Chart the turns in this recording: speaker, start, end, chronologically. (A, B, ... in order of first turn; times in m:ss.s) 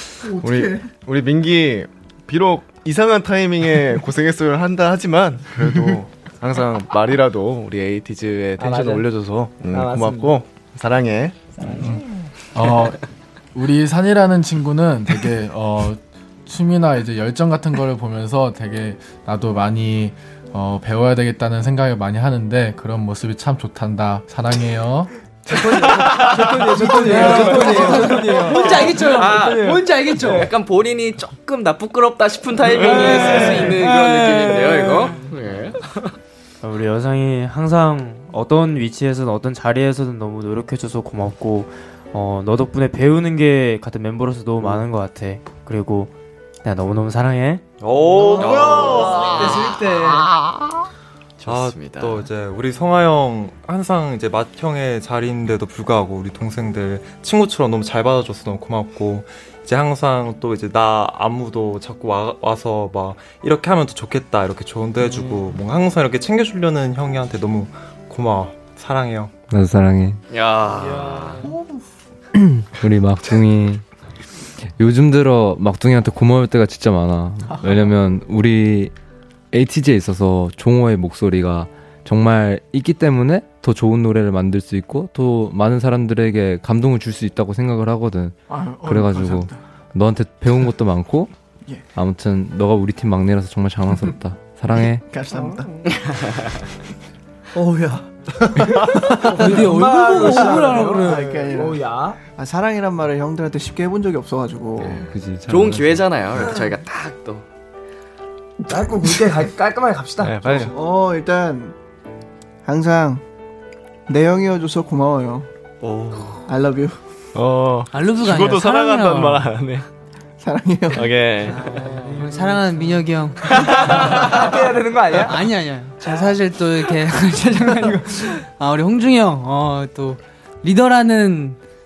0:00.3-0:11.7 A
0:00.3-0:00.8 B
0:05.6-0:05.9 C
0:08.6-0:09.0 D
0:09.7-0:10.4 D
0:11.6-0:11.9 D
0:12.5-0:13.0 C
0:13.5-0:25.1 C
0:25.5-0:30.4 D
0:25.8-0:36.1 E
0:27.0-0:30.5 F
0:32.8-0:35.2 F
0:36.6-0:47.6 G
0:47.8-0:49.5 H
0:48.1-0:50.3 D
0:48.3-0:49.8 E
0:51.4-0:52.3 E
0:51.4-1:09.5 H
1:09.5-1:10.2 I
1:10.3-1:11.5 E
1:12.4-1:13.8 I
1:14.8-1:18.9 I
1:19.5-1:31.3 I
1:28.5-1:29.6 B
1:31.9-1:35.1 I
1:34.8-1:36.0 B
1:35.3-1:35.6 D
1:37.5-1:39.6 B
1:38.8-1:42.2 D
1:39.2-1:41.4 F
1:40.4-1:45.0 B
1:44.8-1:47.4 E
1:45.0-1:46.1 I
1:48.7-1:50.7 D
1:50.2-1:50.7 A
1:50.7-1:51.8 B
1:52.6-1:53.2 B
1:54.1-1:55.5 B
1:55.8-1:56.4 H
1:56.4-1:57.0 B
1:57.3-1:59.8 A
1:57.9-1:59.5 F
2:00.4-2:01.2 B
2:00.9-2:01.8 A
2:01.5-2:04.5 F
2:01.7-2:02.9 D
2:03.5-2:05.4 D
2:05.2-2:11.6 F
2:07.4-2:08.1 D